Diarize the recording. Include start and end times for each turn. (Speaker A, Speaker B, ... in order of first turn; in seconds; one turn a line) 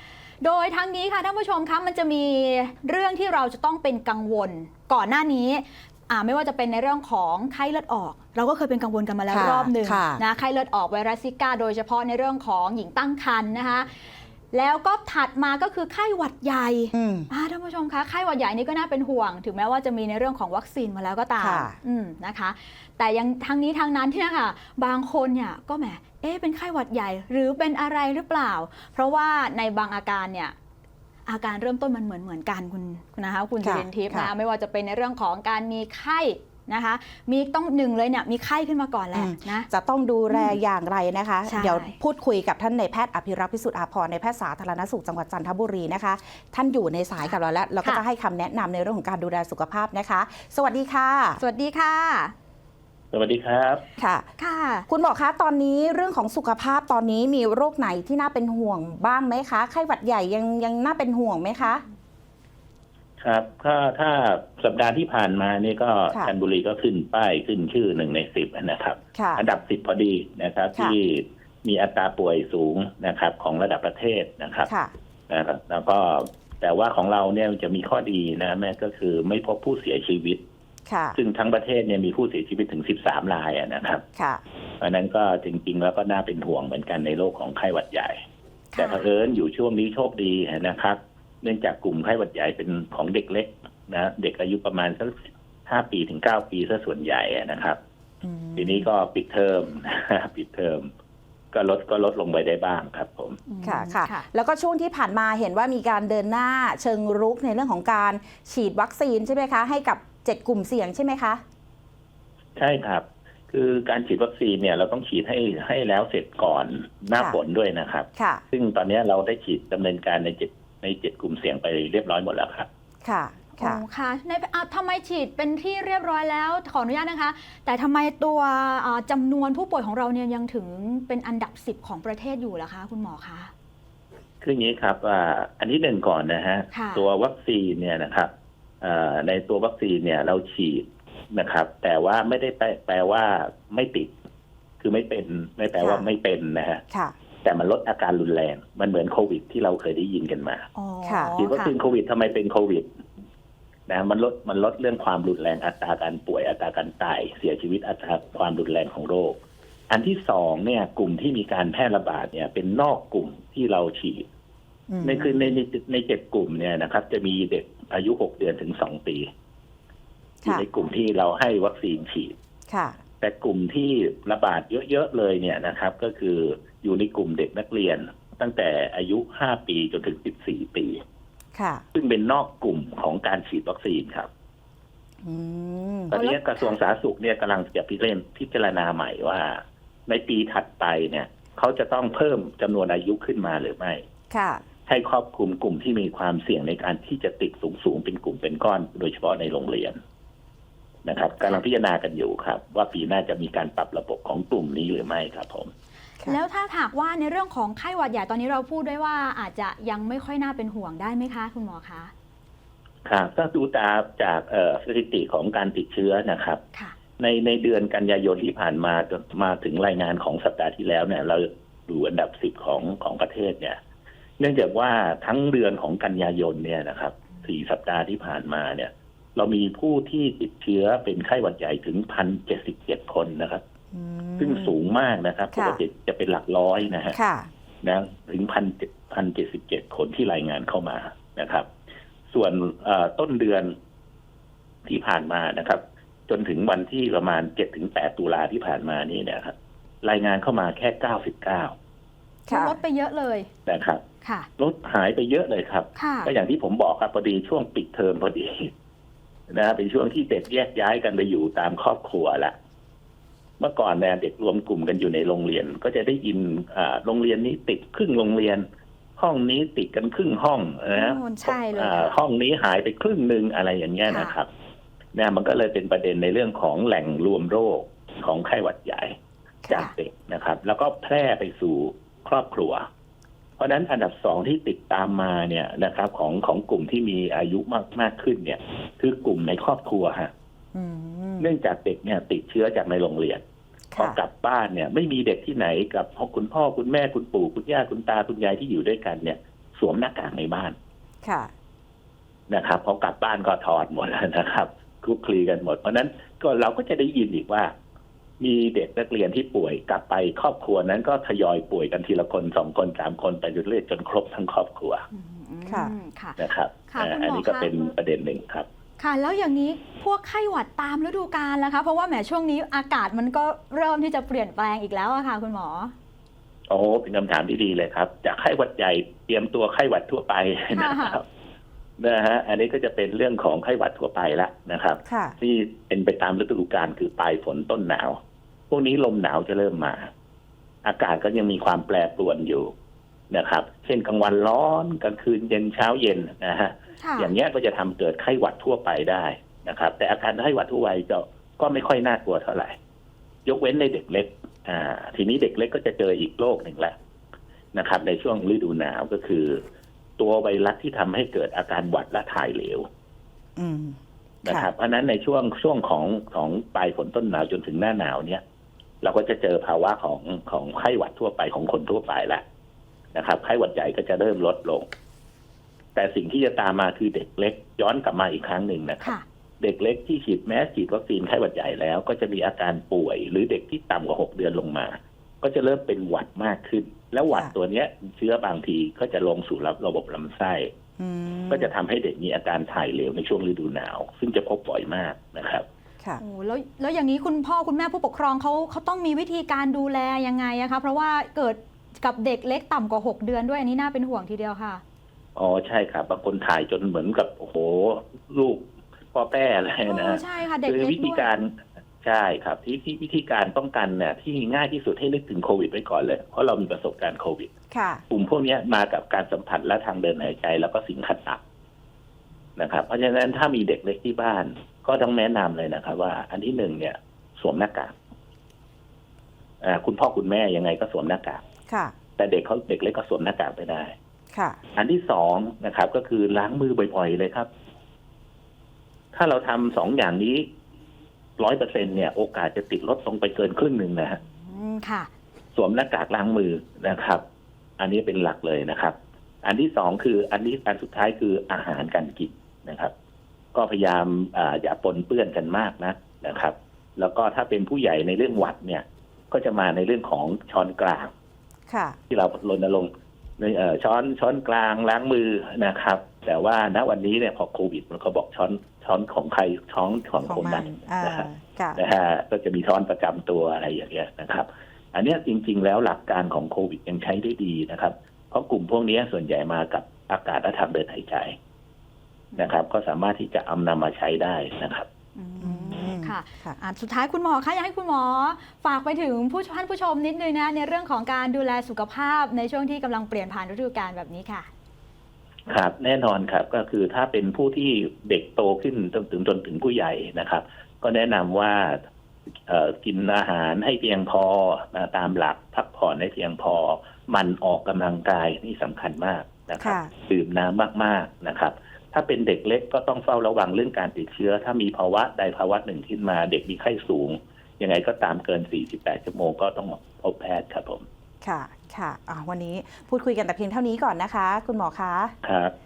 Speaker A: 0.4-13.9
Speaker B: 9.3-10.2
Speaker A: 14.5-30.5
Speaker B: 16.9-17.3
Speaker B: 21.4-21.7
Speaker A: 31.2-39.7
Speaker B: 33.6-34.3
Speaker B: 39.1-51.4
Speaker A: 40.3-40.5
Speaker A: 41.5-41.9
Speaker A: 47.2-48.0
Speaker A: 51.4-52.3
Speaker C: 53.1-53.8
Speaker B: 54.0-54.2
Speaker A: 54.4-54.9
Speaker B: 54.9-61.8
Speaker C: 63.2-74.7
Speaker B: 69.1-69.4
Speaker B: 74.7-74.9
Speaker C: 75.3-80.4
Speaker B: 80.9-81.2
Speaker C: 81.1-84.0
Speaker B: 84.2-84.4
Speaker C: 84.8-88.2
Speaker A: 88.7-89.1
Speaker C: 88.8-97.8
Speaker B: 98.2-98.9
Speaker C: 98.5-100.9
Speaker C: 101.5-103.4
Speaker A: 103.5-104.2
Speaker B: 103.6-111.4
Speaker C: 112.5-122.7
Speaker B: 118.2-118.4
Speaker B: 123.0-123.8
Speaker A: 123.5-133.5
Speaker C: 134.4-144.1
Speaker A: 136.7-137.0
Speaker C: 144.8-146.8
Speaker C: 147.4-150.7
Speaker A: 150.7-151.7
Speaker B: 151.0-151.4
Speaker C: 151.4-152.9
Speaker C: 153.9-159.4
Speaker C: 159.9-164.2
Speaker B: 164.9-165.6
Speaker C: 165.0-169.3
Speaker C: 170.4-172.3
Speaker B: 172.7-173.0
Speaker C: 173.2-181.0
Speaker B: 181.5-181.8
Speaker C: 181.9-184.3
Speaker B: 185.2-186.1
Speaker C: 186.1-194.0
Speaker A: 186.1-186.8
Speaker B: 194.3-194.6
Speaker C: 194.9-200.0
Speaker C: 201.0-205.7
Speaker A: 206.2-212.1
Speaker C: 213.0-216.6
Speaker C: 217.2-223.8
Speaker C: 224.4-233.6
Speaker B: 233.9-234.8
Speaker C: 234.4-237.2
Speaker B: 235.5-235.8
Speaker B: 237.1-237.5
Speaker C: 237.8-241.7
Speaker C: 242.3-243.7
Speaker C: 244.8-251.7
Speaker A: 252.5-253.5
Speaker B: 252.5-252.7
Speaker C: 253.7-254.0
Speaker A: 254.2-254.5
Speaker C: 254.6-258.7
Speaker A: 255.9-256.3
Speaker C: 259.5-262.5
Speaker C: 263.6-268.6
Speaker C: 269.2-274.5
Speaker A: 270.9-272.2
Speaker A: 274.1-274.3
Speaker C: 275.1-279.1
Speaker C: 279.7-282.8
Speaker C: 283.6-290.3
Speaker B: 290.7-291.5
Speaker C: 291.4-293.4
Speaker B: 293.9-294.2
Speaker C: 293.9-300.8
Speaker B: 301.2-301.5
Speaker C: 302.5-307.7
Speaker C: 308.4-315.1
Speaker A: 315.1-317.7
Speaker B: 315.7-315.9
Speaker C: 316.4-318.7
Speaker A: 319.0-325.9
Speaker C: 326.7-331.2
Speaker A: 330.7-331.2
Speaker C: 332.0-338.2
Speaker B: 335.1-335.3
Speaker C: 338.7-340.1
Speaker C: 340.8-342.7
Speaker C: 343.3-352.8
Speaker A: 347.0-347.3
Speaker C: 353.4-356.9
Speaker C: 357.7-359.6
Speaker C: 360.2-362.9
Speaker B: 363.6-364.7
Speaker C: 364.4-368.4
Speaker C: 369.0-372.4
Speaker C: 373.1-374.9
Speaker C: 375.9-390.7
Speaker B: 391.0-391.7
Speaker C: 391.5-395.6
Speaker A: 396.2-404.8
Speaker C: 405.4-417.5
Speaker A: 409.8-411.3
Speaker B: 417.7-418.0
Speaker C: 418.1-421.4
Speaker C: 422.6-427.9
Speaker C: 429.6-431.4
Speaker B: 431.7-431.9
Speaker C: 432.2-433.9
Speaker B: 434.3-434.6
Speaker C: 434.7-437.5
Speaker C: 439.1-440.5
Speaker C: 441.4-444.2
Speaker A: 444.4-445.1
Speaker C: 445.5-447.2
Speaker C: 447.8-452.9
Speaker C: 453.5-461.1
Speaker B: 461.7-462.0
Speaker C: 462.1-481.4
Speaker B: 470.2-471.8
Speaker C: 482.4-484.9
Speaker A: 485.1-494.5
Speaker B: 485.4-486.6
Speaker C: 495.5-501.8
Speaker C: 502.5-520.9
Speaker B: 509.6-509.9
Speaker B: 521.2-525.1
Speaker C: 525.2-525.5